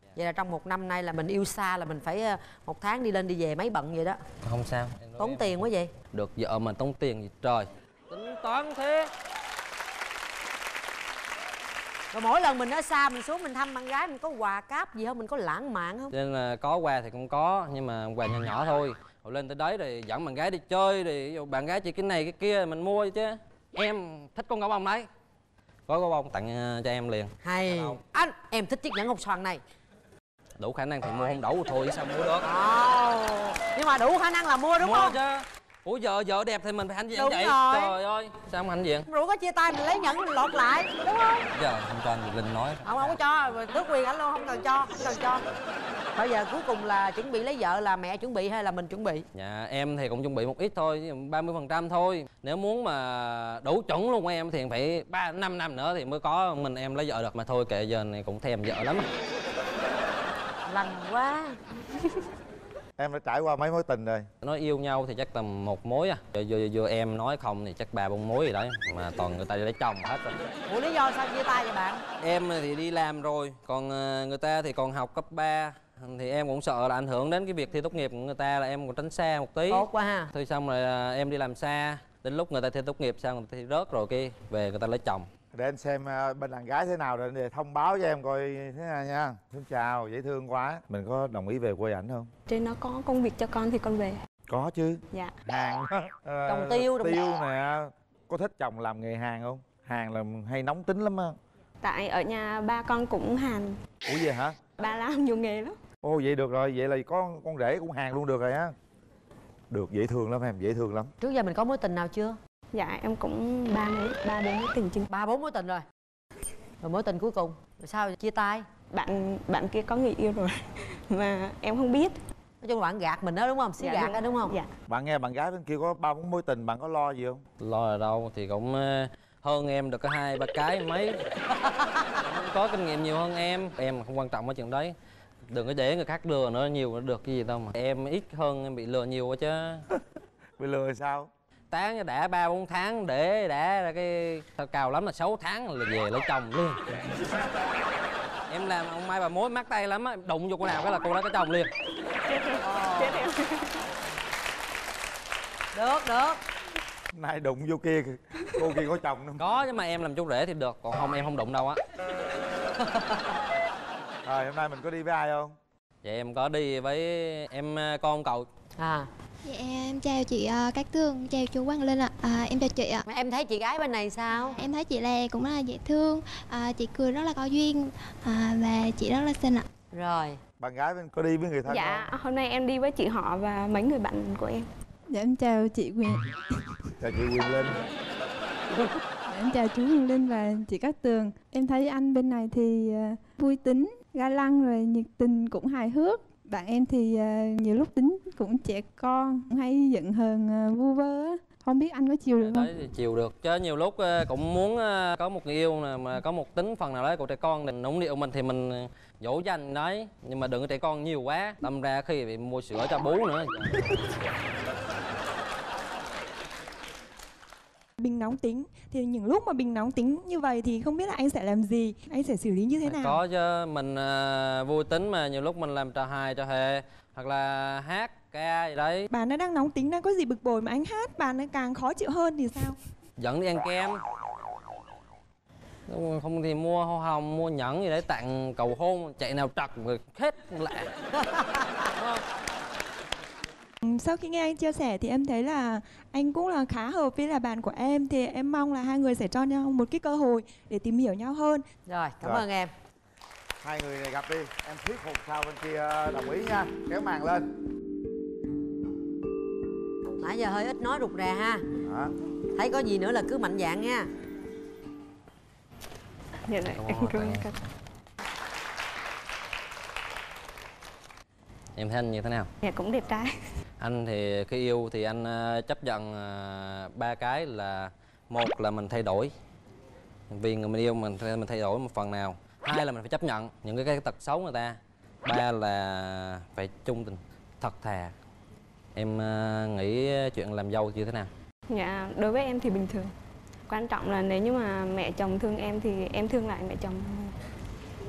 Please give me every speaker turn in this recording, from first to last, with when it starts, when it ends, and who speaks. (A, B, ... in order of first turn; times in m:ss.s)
0:00.1-0:04.2 A
0:04.4-0:09.1 B
0:05.2-0:05.9 A
0:12.1-0:16.1 A
0:16.1-0:25.1 B
0:25.9-0:28.0 B
0:27.4-0:29.6 A
0:30.6-0:32.5 B
0:32.4-0:35.2 A
0:34.8-0:39.1 B
0:37.1-0:37.9 A
0:39.0-0:41.4 A
0:41.5-0:43.2 B
0:42.8-0:45.4 A
0:46.1-0:49.2 A
0:49.3-0:59.1 B
1:00.7-1:01.6 A
1:03.0-1:04.3 C
1:04.4-1:10.3 B
1:10.6-1:12.0 A
1:12.2-1:25.3 B
1:19.7-1:20.3 A
1:25.5-1:32.3 C
1:32.5-1:34.2 D
1:34.5-1:41.4 C
1:36.4-1:37.2 A
1:41.8-1:43.7 D
1:44.0-1:44.6 C
1:44.8-1:45.7 D
1:46.0-1:48.7 C
1:49.7-1:51.1 C
1:51.2-1:52.4 A
1:52.7-1:55.1 D
1:55.1-1:55.8 A
1:56.8-1:58.6 A
1:58.9-2:00.6 D
2:01.1-2:02.2 D
2:02.6-2:04.5 A
2:03.8-2:04.7 D
2:04.9-2:07.4 C
2:07.6-2:11.2 B
2:11.6-2:11.9 A
2:12.2-2:14.9 B
2:15.5-2:19.8 B
2:20.6-2:21.3 C
2:21.7-2:27.0 B
2:28.5-2:31.7 B
2:32.3-2:33.8 D
2:32.6-2:33.2 A
2:35.7-2:36.4 A
2:37.1-2:39.4 C
2:39.4-2:41.8 B
2:42.8-2:43.3 A
2:44.2-2:45.6 C
2:46.0-2:48.5 B
2:48.8-2:49.1 A
2:49.4-2:53.0 E
2:53.1-2:54.6 A
2:54.3-2:59.6 E
2:59.9-3:00.4 A
3:00.6-3:02.1 C
3:01.7-3:04.7 D
3:05.1-3:06.3 F
3:07.0-3:07.8 C
3:09.3-3:22.7 F
3:22.4-3:33.9 B
3:38.0-3:43.1 G
3:42.8-3:49.1 B
3:49.1-3:52.7 G
3:53.2-3:54.0 B
3:55.9-4:00.9 B
4:01.2-4:01.8 A
4:02.0-4:02.2 B
4:03.8-4:11.6 G
4:11.9-4:12.7 A
4:13.6-4:17.5 C
4:20.2-4:21.6 A
4:21.8-4:22.1 C
4:22.5-4:24.1 A
4:26.5-4:27.6 D
4:26.6-4:27.5 B
4:31.7-4:32.5 B
4:32.6-4:33.3 D
4:33.8-4:39.3 B
4:40.3-4:48.1 B
4:48.9-4:51.3 B
4:51.7-4:53.1 D
4:53.7-4:57.3 D